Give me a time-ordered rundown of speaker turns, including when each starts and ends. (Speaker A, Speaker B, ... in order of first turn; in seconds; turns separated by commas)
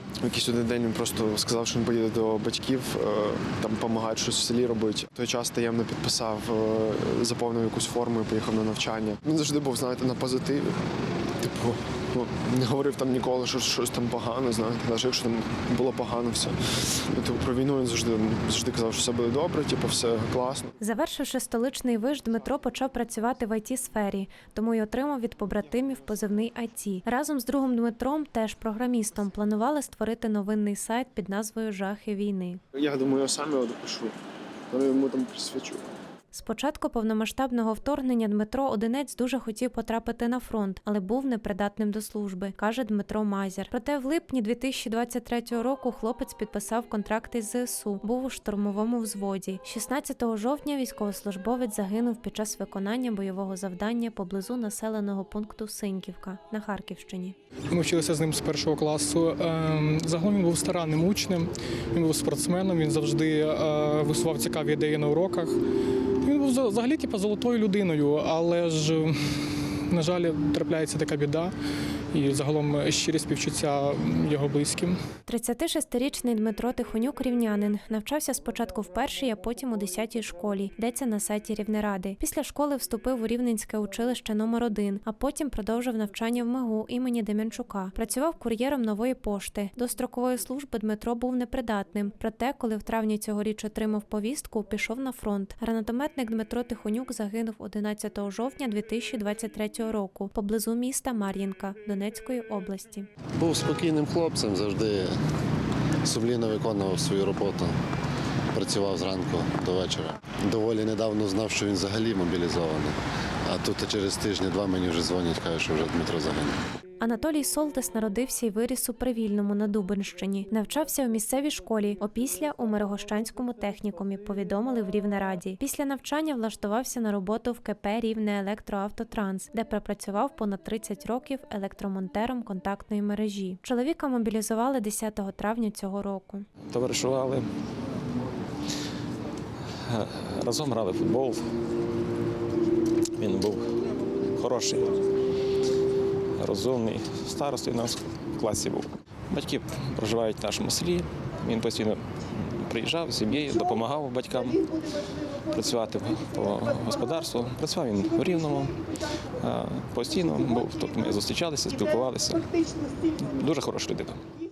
Speaker A: 0.2-10.8, Speaker A: 11.4-20.8, Speaker B: 20.8-32.6, Speaker A: 32.7-34.1, Speaker A: 34.7-35.9, Speaker B: 36.3-57.4, Speaker C: 57.7-65.5, Speaker C: 66.2-71.5, Speaker C: 72.1-75.0, Speaker B: 75.3-103.1, Speaker D: 103.4-105.1, Speaker D: 106.0-107.8, Speaker D: 108.5-116.6, Speaker B: 117.0-136.5, Speaker E: 136.7-137.5, Speaker E: 139.9-141.4, Speaker E: 143.2-143.7, Speaker E: 144.3-145.0, Speaker E: 146.4-154.7, Speaker E: 155.5-158.8, Speaker E: 159.4-162.5, Speaker E: 163.2-164.2